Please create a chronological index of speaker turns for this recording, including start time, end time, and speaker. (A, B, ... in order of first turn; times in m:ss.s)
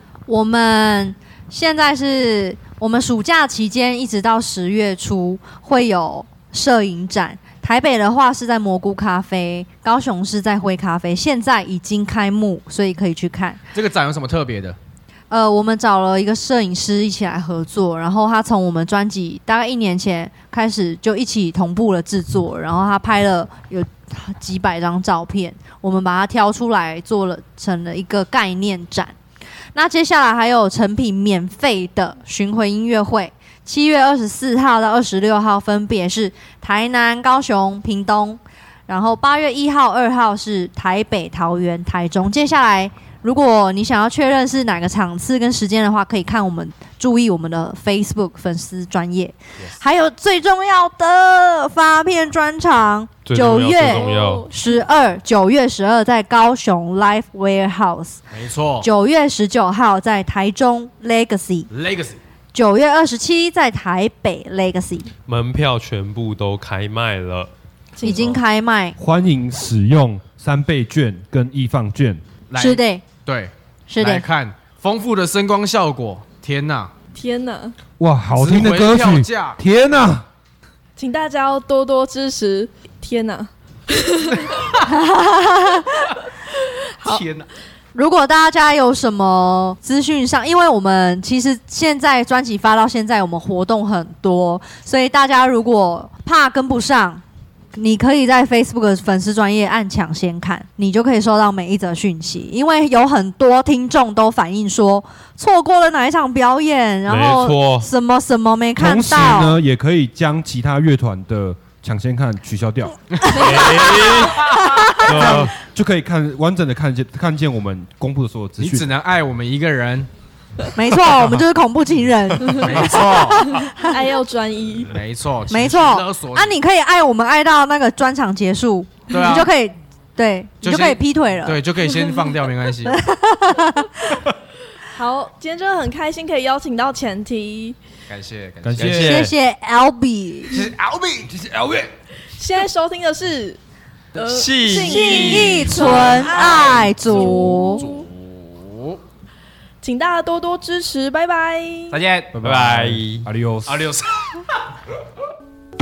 0:00.3-0:13.6 A
0:13.7-0:14.8 B
0:15.3-0:29.2 A
0:29.7-0:58.2 A
0:53.3-0:54.5 C
0:53.9-0:54.8 D
0:58.3-0:58.9 B
0:58.8-1:01.7 A
1:01.7-1:02.2 B
1:02.5-1:05.1 A
1:05.3-1:07.5 C
1:08.0-1:08.4 D
1:08.0-1:09.0 A
1:08.0-1:08.4 B
1:09.0-1:12.2 E
1:12.5-1:16.9 B
1:12.6-1:13.0 A
1:13.9-1:14.3 A
1:17.1-1:17.8 D
1:18.0-1:20.3 E
1:18.3-1:19.6 B
1:21.0-1:24.7 D
1:24.8-1:26.1 A
1:27.0-1:27.5 B
1:27.9-1:37.2 A
1:37.7-1:49.6 A
1:47.1-1:47.9 C
1:48.8-1:53.2 E
1:53.2-1:53.4 B
1:53.2-1:55.5 C
1:54.4-1:55.1 A
1:55.0-1:58.9 E
1:58.6-2:00.1 B
2:00.7-2:03.9 A
2:02.5-2:03.7 B
2:03.5-2:04.9 D
2:04.9-2:06.5 B
2:05.5-2:11.6 A
2:09.1-2:09.5 B
2:10.6-2:13.0 B
2:12.9-2:14.1 A
2:14.9-2:17.8 D
2:18.1-2:19.2 B
2:18.6-2:19.2 E
2:18.8-2:19.3 C
2:18.9-2:20.6 A
2:20.5-2:21.3 B
2:21.2-2:21.9 E
2:22.3-2:23.6 D
2:24.1-2:28.1 D
2:24.2-2:25.7 C
2:24.7-2:27.8 A
2:25.6-2:29.0 B
2:29.8-2:32.0 D
2:31.9-2:33.0 B
2:32.4-2:33.3 C
2:33.2-2:33.9 E
2:33.7-2:34.4 B